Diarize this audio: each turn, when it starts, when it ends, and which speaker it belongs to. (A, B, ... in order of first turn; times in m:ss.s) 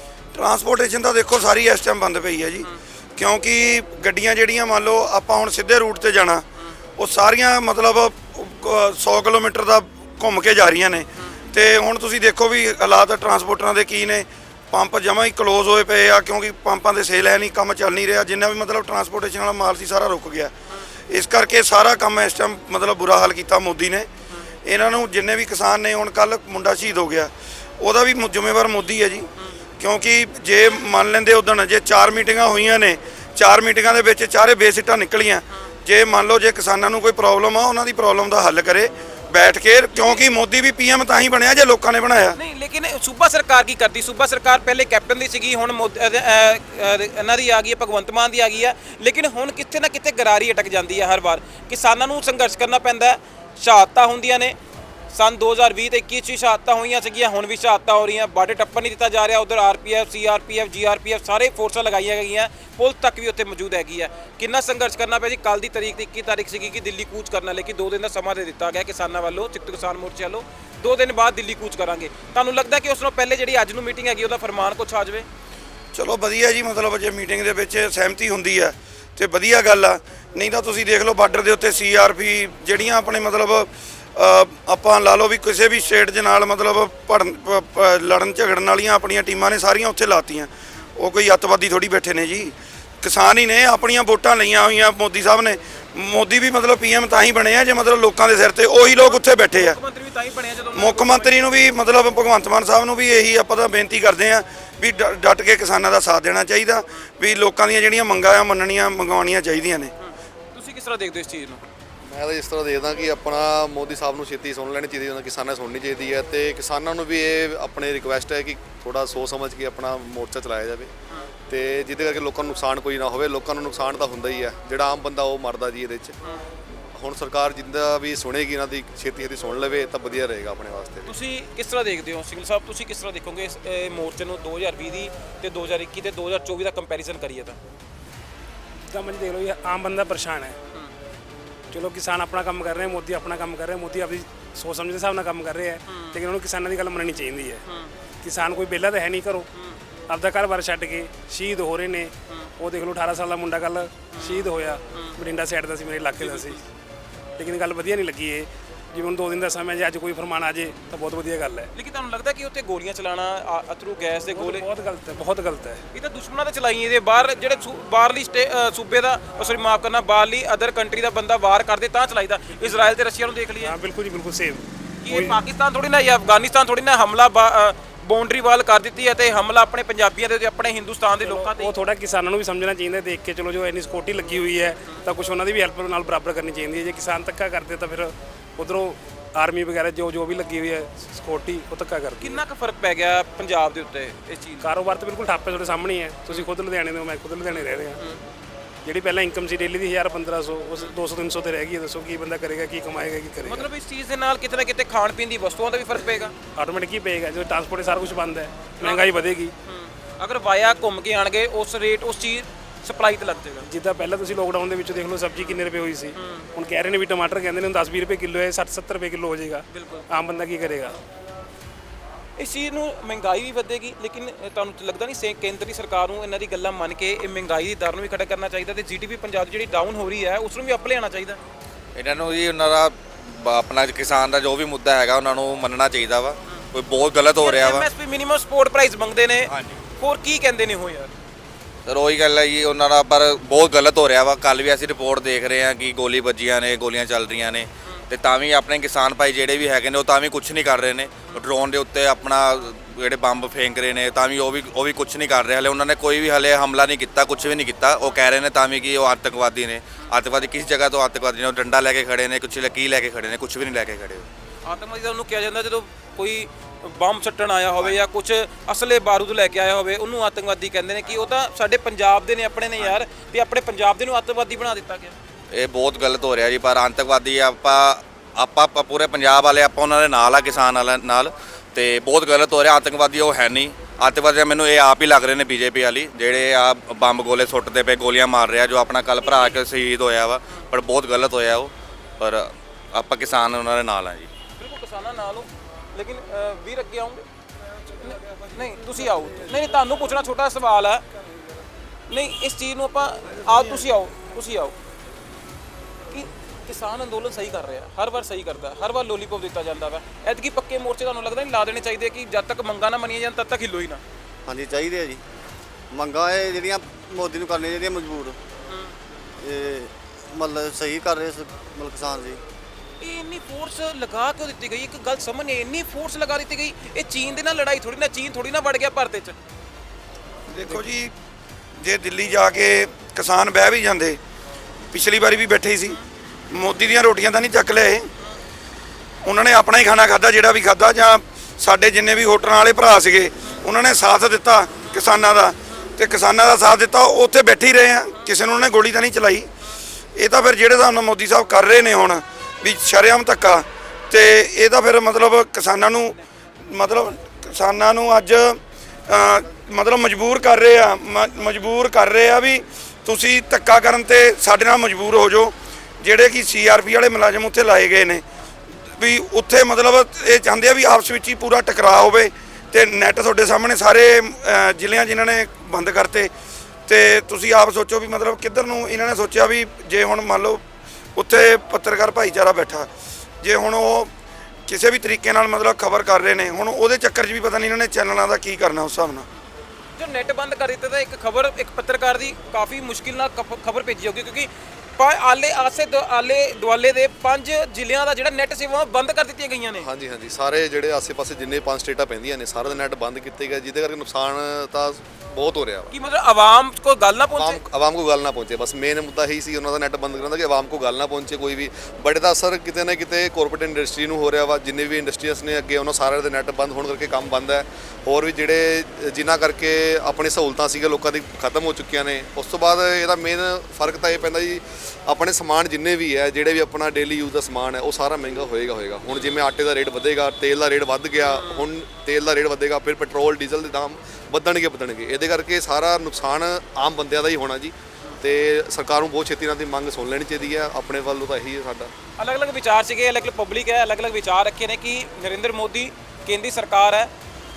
0:00.3-0:06.4 A
0:07.0-0:20.5 A
0:21.1-0:24.1 A
0:24.6-0:29.3 A
0:29.8-0:42.4 A
0:42.4-0:54.6 B
0:55.1-1:15.3 B
1:15.9-1:39.8 A
1:39.0-1:41.3 B
1:40.7-1:49.9 A
1:50.5-1:51.6 B
1:52.1-2:00.9 C
2:01.5-2:06.2 C
2:06.8-2:11.1 C
2:11.1-2:17.6 B
2:18.9-2:20.6 D
2:21.7-2:27.6 D
2:28.2-2:29.5 D
2:30.1-2:36.6 D
2:34.2-2:35.1 B
2:36.2-2:36.6 B
2:37.4-2:41.7 D
2:41.7-2:44.6 B
2:44.3-2:45.8 D
2:45.9-2:53.7 B
2:53.6-2:55.4 D
2:55.0-3:01.7 B
3:01.2-3:12.4 D
3:12.2-3:14.7 B
3:14.6-3:18.0 D
3:18.8-3:23.6 D
3:23.4-3:26.3 B
3:26.6-3:29.5 D
3:28.8-3:33.6 B
3:33.6-3:41.0 D
3:36.2-3:36.5 B
3:39.7-3:40.0 B
3:42.4-3:51.4 B
3:51.9-3:57.9 E
3:57.4-4:01.1 B
3:59.5-3:59.8 E
4:01.8-4:24.3 E
4:24.6-4:35.1 B
4:35.5-4:54.3 E
4:54.6-4:57.2 B
4:58.0-5:01.0 B
5:02.1-5:04.7 B
5:06.1-5:14.0 B
5:14.5-5:15.2 F
5:15.9-5:18.4 F
5:19.4-5:22.4 F
5:23.0-5:29.4 B
5:30.5-5:31.1 A
5:31.8-5:34.2 A
5:34.9-5:36.0 A
5:36.5-5:38.1 A
5:39.2-5:49.5 A
5:50.2-5:56.2 A
5:56.7-6:08.2 A
6:09.0-6:16.3 A
6:16.9-6:20.6 A
6:21.2-6:22.9 A
6:23.4-6:24.1 A
6:24.7-6:29.2 A
6:30.0-6:39.9 B
6:39.8-6:45.9 C
6:45.9-6:47.6 B
6:47.3-7:21.9 C
7:11.3-7:11.6 B
7:22.2-7:27.1 B